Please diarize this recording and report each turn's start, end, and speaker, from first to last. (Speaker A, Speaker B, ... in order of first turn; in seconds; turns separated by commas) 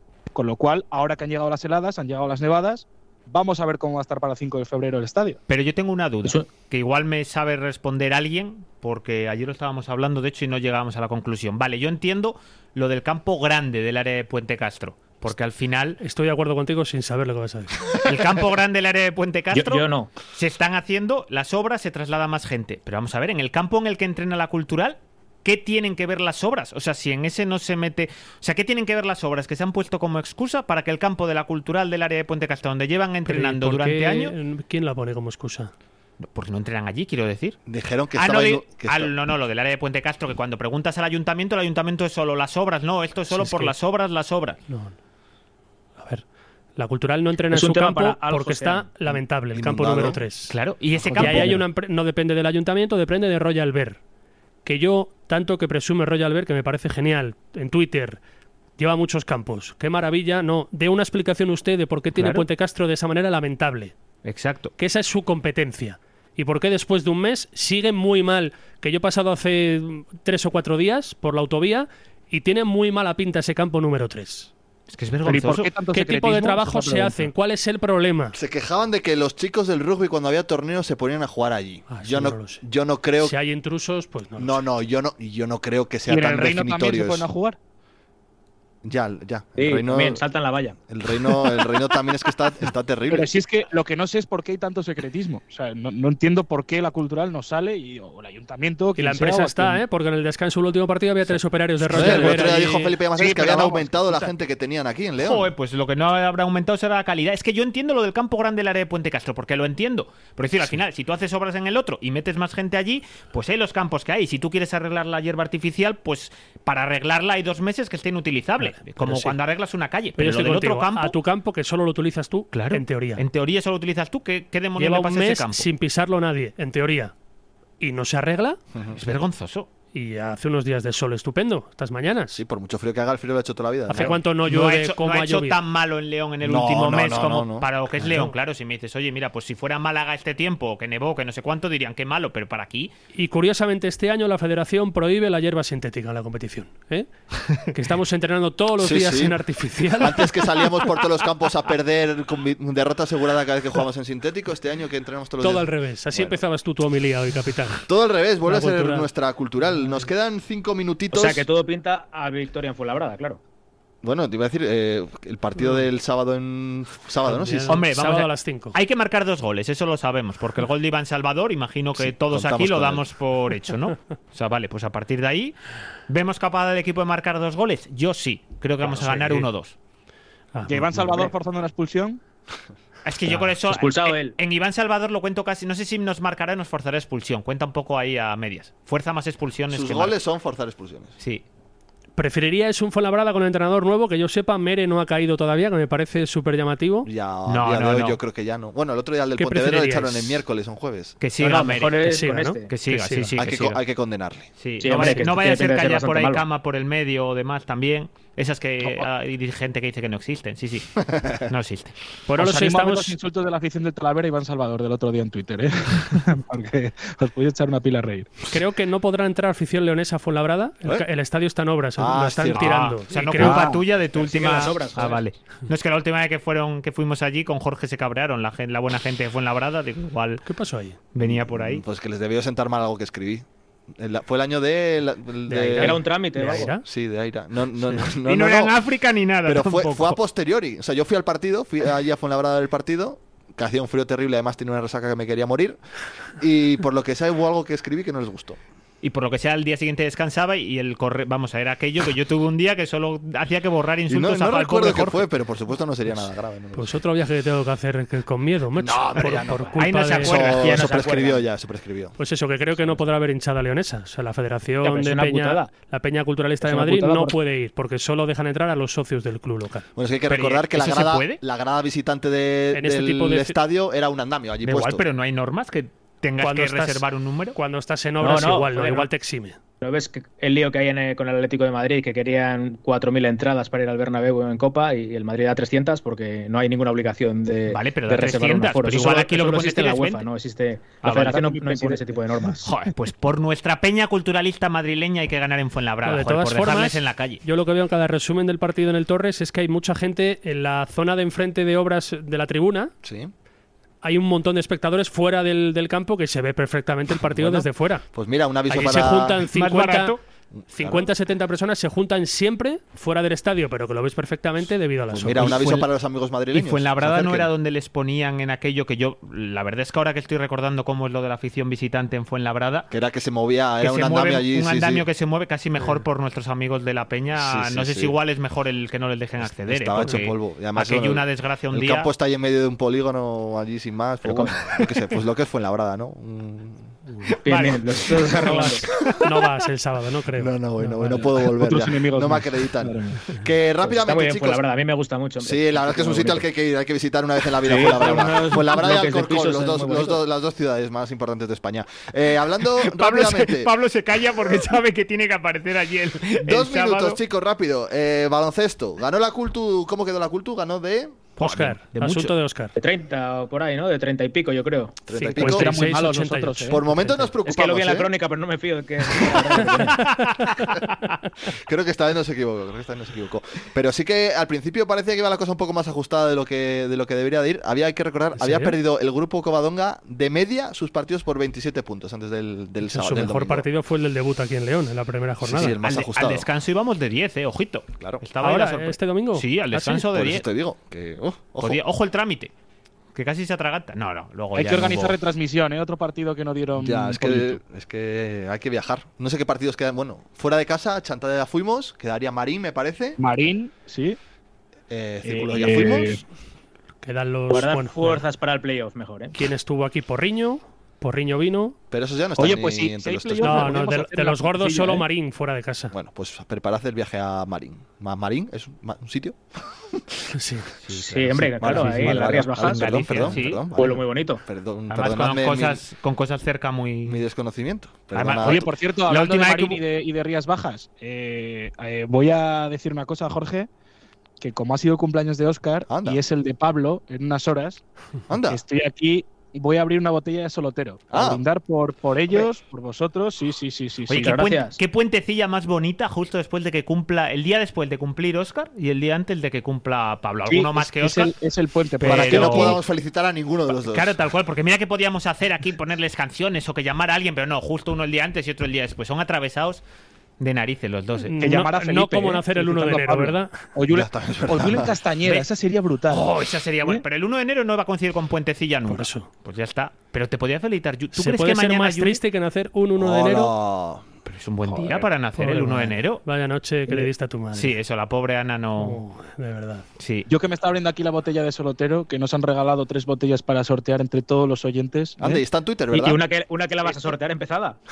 Speaker A: 0.3-5.4, Speaker B: 5.5-16.0, Speaker C: 16.0-17.9, Speaker B: 18.0-34.3, Speaker D: 19.5-20.1, Speaker C: 33.3-35.7, Speaker B: 36.2-37.6, Speaker E: 37.7-39.1, Speaker B: 38.1-44.6, Speaker C: 43.4-43.7, Speaker C: 44.7-45.0, Speaker C: 46.0-46.2, Speaker C: 46.8-50.5, Speaker D: 47.5-48.9, Speaker E: 49.5-50.2, Speaker B: 50.5-51.6, Speaker E: 51.0-51.6, Speaker C: 51.2-54.0, Speaker C: 54.6-58.2, Speaker C: 58.8-63.9, Speaker B: 62.2-62.5, Speaker B: 64.2-64.7, Speaker C: 64.8-74.5, Speaker B: 74.9-75.7, Speaker A: 75.2-77.3, Speaker C: 75.9-78.4, Speaker E: 78.3-83.4, Speaker C: 81.9-82.6, Speaker C: 83.2-84.6, Speaker E: 84.4-87.3, Speaker A: 86.1-87.6, Speaker E: 88.8-90.2, Speaker D: 89.6-90.8, Speaker E: 90.9-93.4, Speaker A: 93.1-99.8, Speaker C: 99.0-102.9, Speaker E: 101.9-105.5, Speaker A: 101.9-104.3, Speaker B: 105.2-121.2, Speaker C: 118.6-119.3, Speaker C: 120.2-123.2, Speaker B: 122.5-125.7, Speaker C: 124.8-127.1, Speaker C: 127.8-128.6, Speaker E: 128.7-129.0, Speaker B: 128.9-129.7, Speaker C: 129.9-132.4, Speaker E: 132.3-134.2, Speaker C: 133.9-135.6, Speaker B: 134.0-142.9, Speaker E: 136.4-137.7, Speaker C: 138.0-138.3, Speaker C: 143.1-150.8, Speaker E: 148.8-149.4, Speaker E: 150.0-156.4, Speaker C: 155.4-157.9, Speaker E: 157.9-161.5, Speaker C: 158.5-159.1, Speaker D: 161.1-163.4, Speaker E: 164.0-167.8, Speaker C: 167.2-168.8, Speaker B: 167.7-175.5, Speaker E: 172.0-173.0, Speaker B: 176.1-179.8, Speaker C: 180.5-180.8, Speaker A: 180.7-182.2, Speaker B: 183.1-190.2, Speaker D: 183.7-184.4, Speaker E: 189.7-191.2, Speaker C: 192.2-197.1, Speaker E: 197.1-201.2, Speaker B: 197.5-198.2, Speaker C: 199.4-200.4, Speaker B: 201.2-202.0, Speaker D: 201.4-202.7, Speaker C: 202.1-203.3, Speaker B: 202.7-203.8, Speaker E: 203.4-204.5, Speaker B: 204.6-210.9, Speaker D: 204.8-206.4, Speaker B: 211.5-211.9, Speaker C: 212.3-213.2, Speaker A: 212.3-218.3, Speaker C: 218.5-223.7, Speaker E: 222.0-223.7, Speaker B: 222.6-230.4, Speaker A: 223.4-223.8, Speaker D: 224.2-225.2, Speaker C: 230.4-231.0, Speaker B: 231.1-231.8, Speaker E: 231.2-233.4, Speaker E: 234.0-236.0, Speaker C: 235.5-236.8, Speaker D: 235.8-236.8, Speaker E: 236.8-238.8, Speaker B: 238.2-240.2, Speaker E: 239.4-245.8, Speaker E: 246.4-248.6, Speaker B: 249.0-255.3, Speaker E: 254.1-257.0, Speaker C: 256.7-260.4, Speaker E: 258.8-262.2, Speaker B: 259.8-260.9, Speaker D: 260.6-261.4, Speaker C: 262.2-269.9, Speaker D: 264.8-265.7, Speaker D: 266.6-267.4, Speaker E: 270.0-275.1, Speaker B: 270.3-271.4, Speaker C: 272.7-273.6, Speaker B: 274.6-277.6, Speaker C: 276.4-277.0, Speaker C: 277.6-279.6, Speaker D: 278.2-279.1, Speaker D: 279.8-292.7, Speaker B: 287.7-290.2, Speaker B: 291.0-291.4, Speaker A: 291.2-292.6, Speaker B: 292.6-297.4, Speaker C: 296.1-302.9, Speaker E: 303.0-303.3, Speaker C: 304.0-308.0, Speaker E: 307.1-309.5, Speaker C: 308.7-310.2, Speaker B: 309.5-310.2, Speaker E: 310.5-311.1, Speaker C: 310.7-315.9, Speaker E: 315.1-317.5, Speaker B: 316.5-322.9, Speaker E: 322.9-325.1, Speaker B: 323.8-332.1, Speaker E: 327.4-328.1, Speaker E: 329.4-336.9, Speaker D: 334.2-334.8, Speaker D: 337.4-338.8, Speaker B: 337.5-339.2, Speaker C: 339.2-341.2, Speaker E: 340.4-344.6, Speaker A: 341.0-343.3, Speaker D: 343.8-346.4, Speaker E: 345.4-353.7, Speaker D: 347.6-350.2, Speaker B: 352.8-357.2, Speaker E: 356.4-361.3, Speaker C: 361.4-362.7, Speaker B: 361.4-362.4, Speaker D: 362.8-365.0, Speaker E: 365.1-365.7, Speaker A: 365.3-366.8, Speaker C: 365.4-367.2, Speaker E: 366.7-368.1, Speaker D: 367.4-370.1, Speaker E: 369.4-370.1, Speaker E: 371.5-383.7, Speaker C: 378.4-378.8, Speaker C: 382.8-385.8, Speaker E: 385.4-386.5, Speaker B: 385.8-390.5, Speaker C: 388.4-390.1, Speaker E: 390.1-391.8, Speaker B: 391.6-392.5, Speaker B: 393.1-395.2, Speaker A: 394.6-397.6, Speaker E: 396.8-403.2, Speaker A: 403.2-404.2, Speaker E: 404.9-406.2, Speaker A: 405.2-406.2, Speaker C: 407.0-408.2, Speaker D: 407.5-409.3, Speaker C: 409.3-411.8, Speaker E: 411.9-413.8, Speaker A: 412.4-415.1, Speaker C: 413.4-415.9, Speaker E: 415.9-419.4, Speaker C: 420.3-420.7, Speaker B: 420.8-423.7, Speaker D: 421.0-423.2, Speaker E: 421.3-425.8, Speaker D: 423.8-424.4, Speaker B: 424.9-427.2, Speaker E: 427.1-428.7, Speaker B: 428.1-429.8, Speaker A: 428.4-433.7, Speaker A: 434.4-437.8, Speaker E: 435.9-436.2, Speaker E: 438.3-438.6, Speaker A: 438.5-444.4, Speaker E: 441.1-441.4, Speaker B: 444.1-451.3, Speaker D: 444.2-444.8, Speaker A: 450.5-452.8, Speaker B: 452.0-452.8, Speaker E: 452.0-454.1, Speaker B: 453.7-459.8, Speaker B: 460.4-461.3, Speaker C: 461.3-463.6, Speaker A: 461.4-466.3, Speaker E: 463.9-465.0, Speaker B: 466.1-472.2, Speaker C: 468.9-469.3, Speaker C: 471.1-473.5, Speaker E: 473.0-474.1, Speaker B: 474.3-476.2, Speaker C: 474.8-477.8, Speaker B: 477.5-479.0, Speaker C: 478.8-479.9, Speaker B: 480.0-480.3, Speaker A: 480.3-486.0, Speaker E: 485.2-486.2, Speaker D: 486.0-487.8